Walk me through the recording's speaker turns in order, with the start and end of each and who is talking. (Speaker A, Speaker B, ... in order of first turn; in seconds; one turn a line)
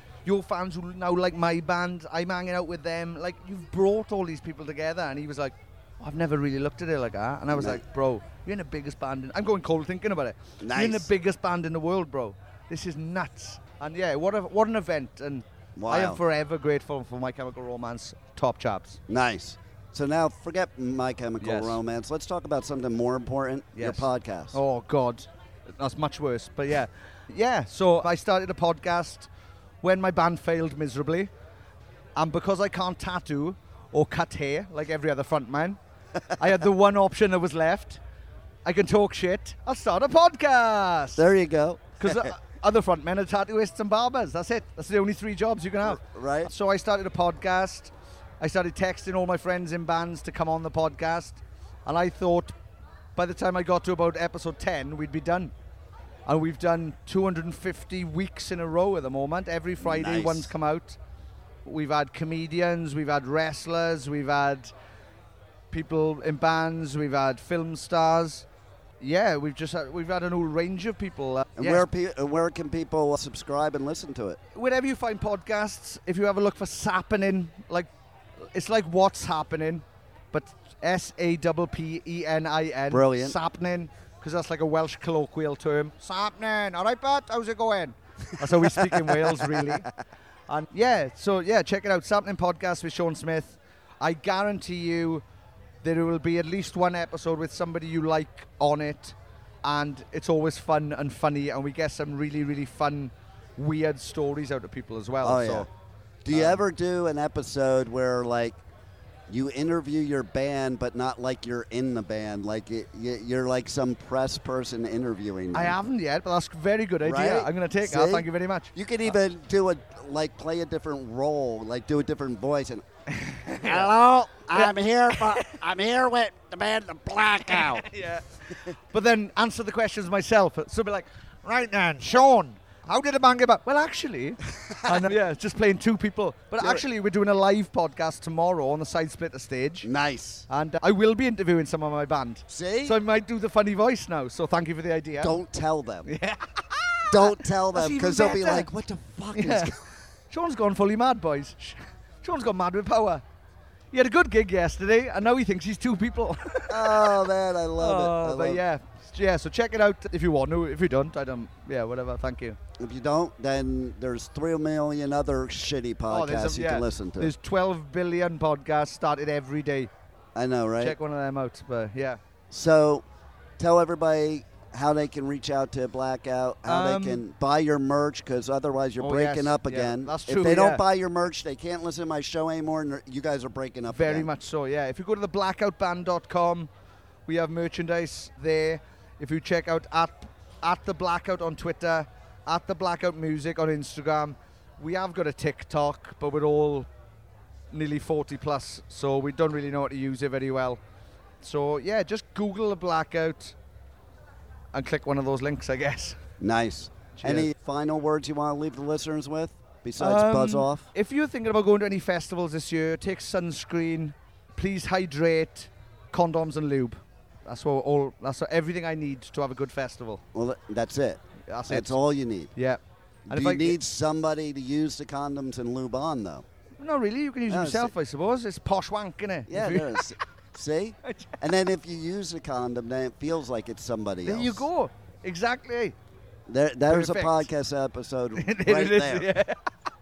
Speaker A: 0.2-19.0
Speaker B: 7.5-7.8
Speaker B: 10.6-11.1
Speaker B: 15.8-16.2
Speaker B: 19.1-24.6
Speaker A: 21.4-21.8
Speaker A: 23.7-29.3
Speaker A: 29.8-31.3
Speaker A: 32.2-35.8
Speaker A: 36.3-38.0
Speaker A: 38.6-41.3
Speaker B: 41.2-42.3
Speaker A: 42.0-52.5
Speaker B: 45.8-46.5
Speaker A: 53.1-55.5
Speaker A: 56.2-61.0
Speaker B: 59.8-60.5
Speaker A: 61.6-64.7
Speaker A: 65.7-68.5
Speaker A: 69.0-71.8
Speaker B: 71.6-74.4
Speaker A: 74.5-77.9
Speaker A: 78.5-89.9
Speaker B: 82.9-83.4
Speaker B: 88.4-89.9
Speaker A: 90.5-95.2
Speaker A: 95.8-105.7
Speaker B: 105.2-105.7
Speaker B: 106.2-108.6
Speaker A: 106.3-106.6
Speaker B: 109.3-115.8
Speaker A: 115.5-119.2
Speaker B: 117.0-122.8
Speaker A: 123.1-123.9
Speaker B: 123.5-127.9
Speaker A: 124.6-125.6
Speaker A: 127.5-139.9
Speaker B: 134.7-135.1
Speaker B: 139.8-140.4
Speaker A: 140.5-145.3
Speaker B: 142.5-143.0
Speaker B: 145.2-146.1
Speaker A: 146.1-148.7
Speaker B: 147.1-149.8
Speaker A: 149.3-149.7
Speaker A: 150.3-153.2
Speaker A: 153.9-157.2
Speaker B: 156.7-158.6
Speaker A: 157.8-162.6
Speaker B: 162.8-167.3
Speaker A: 166.1-169.9
Speaker B: 170.3-170.9
Speaker A: 170.8-172.2
Speaker B: 172.5-173.0
Speaker B: 173.6-184.3
Speaker A: 176.6-177.2
Speaker A: 179.0-180.8
Speaker A: 183.9-186.7
Speaker A: 187.3-196.9
Speaker A: 197.7-200.8
Speaker A: 201.4-203.6
Speaker A: 204.7-206.2
Speaker B: 206.4-210.9
Speaker A: 207.2-207.5
Speaker A: 210.0-220.2
Speaker B: 220.3-222.5
Speaker A: 221.5-222.0
Speaker A: 222.5-223.8
Speaker B: 223.3-226.4
Speaker A: 226.8-230.1
Speaker B: 227.5-227.9
Speaker B: 229.5-234.7
Speaker A: 231.0-231.4
Speaker A: 234.2-235.9
Speaker B: 236.5-239.3
Speaker A: 236.9-237.5
Speaker A: 238.3-239.6